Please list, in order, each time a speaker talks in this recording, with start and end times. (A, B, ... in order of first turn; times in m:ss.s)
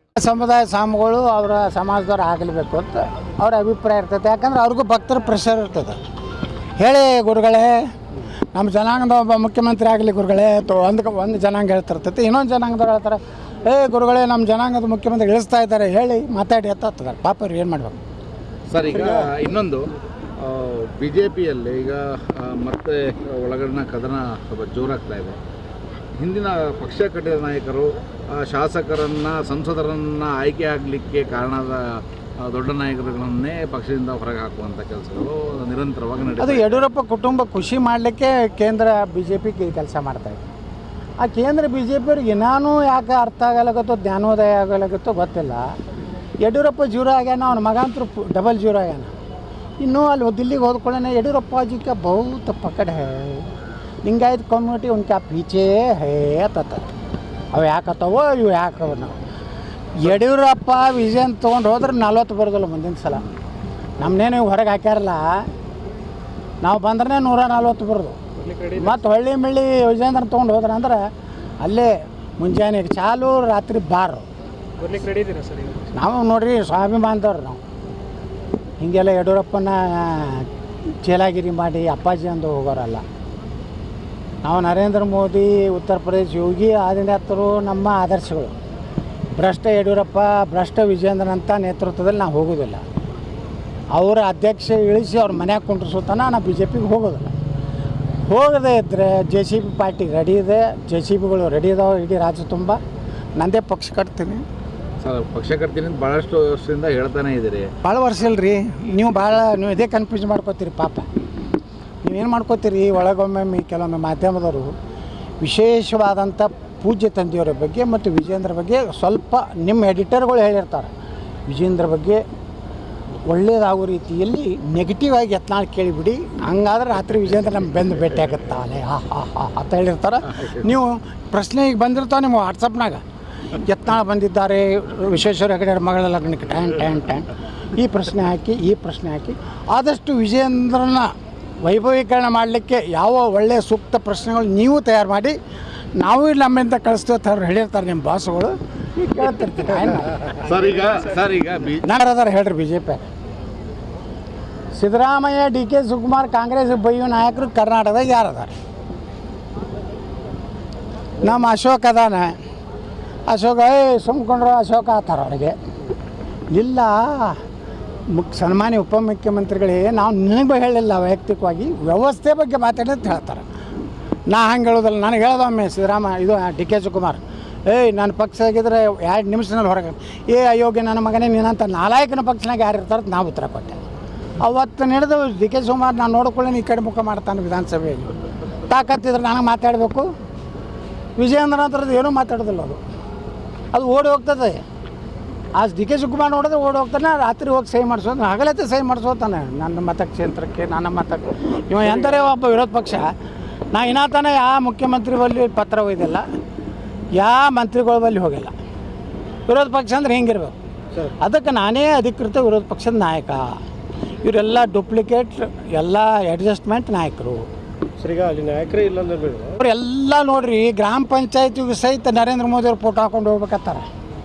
0:00.2-0:06.0 A
0:06.8-0:07.8 A
0:08.5-0:18.0 A
0:18.7-0:25.4 B
0:18.9-0:19.4 C
0:26.2-0:36.8 B
0:36.4-0:40.4 A
0:41.2-0:45.6 A
0:46.4-0:49.1 A
0:49.8-0:53.5 A
0:54.0-0:56.9 A
0:57.5-0:59.2 A
1:00.0-1:03.2 A
1:04.0-1:05.5 A
1:06.6-1:08.2 A
1:08.4-1:08.9 C
1:08.8-1:11.0 A
1:11.6-1:14.2 A
1:14.8-1:15.9 C
1:15.9-1:17.6 A
1:18.8-1:20.5 A
1:21.0-1:23.0 A
1:24.4-1:28.5 A
1:29.3-1:32.8 A
1:33.9-1:37.3 A
1:38.3-1:42.8 A
1:43.4-1:44.4 A
1:45.0-1:47.7 B
1:47.8-1:51.0 A
1:52.0-1:54.7 A
1:55.4-2:00.9 A
2:01.5-2:02.2 A
2:03.3-2:13.0 A
2:13.5-2:21.1 A
2:21.6-2:25.4 A
2:26.0-2:30.3 A
2:30.4-2:31.8 B
2:31.8-2:33.1 A
2:34.8-2:38.5 A
2:41.2-2:42.4 A
2:43.3-2:45.5 A
2:46.5-2:47.4 A
2:48.1-2:53.4 A
2:54.3-3:03.8 A
3:04.4-3:10.0 A
3:11.2-3:12.8 A
3:13.7-3:14.6 A
3:15.5-3:23.0 A
3:23.7-3:26.2 A
3:27.2-3:28.5 A
3:29.5-3:30.5 A
3:31.2-3:33.4 A
3:34.2-3:37.4 A
3:38.0-3:39.6 C
3:39.6-3:43.8 A